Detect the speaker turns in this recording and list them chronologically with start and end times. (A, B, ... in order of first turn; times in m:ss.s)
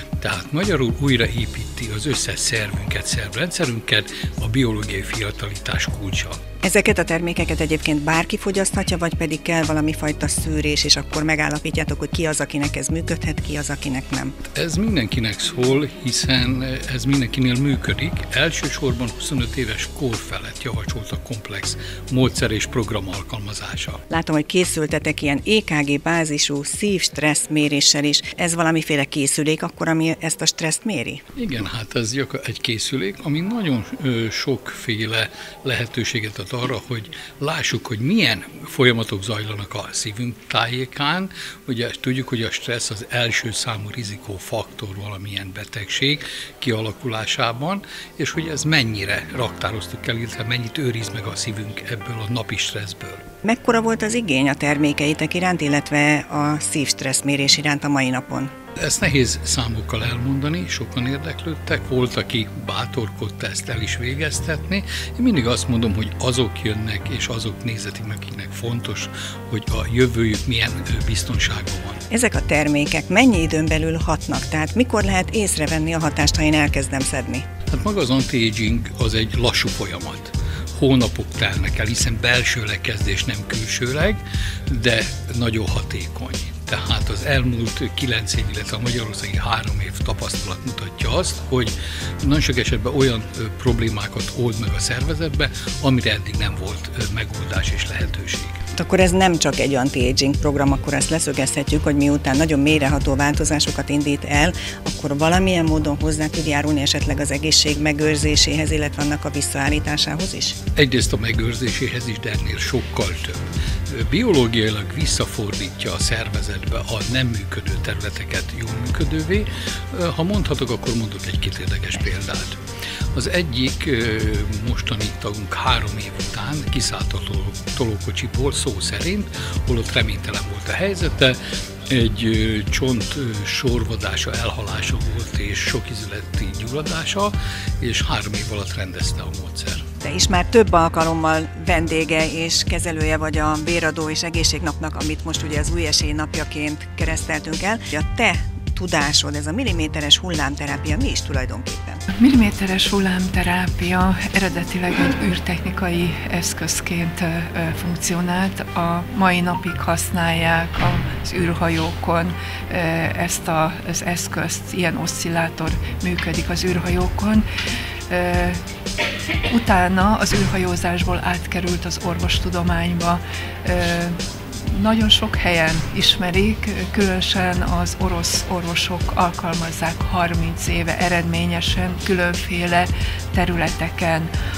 0:00.2-0:06.4 A
0:06.6-0:14.4 B
0:14.5-0:24.0 A
0:24.1-0:31.2 B
0:31.4-0:53.2 A
0:53.4-0:58.5 B
0:58.8-1:12.0 A
1:12.1-1:17.4 B
1:17.7-1:38.6 A
1:38.8-1:50.6 B
1:50.8-2:02.6 A
2:03.1-2:11.4 A
2:11.9-2:19.8 A
2:20.0-2:32.0 B
2:32.1-2:47.4 C
2:48.1-2:48.6 C
2:49.5-3:04.3 C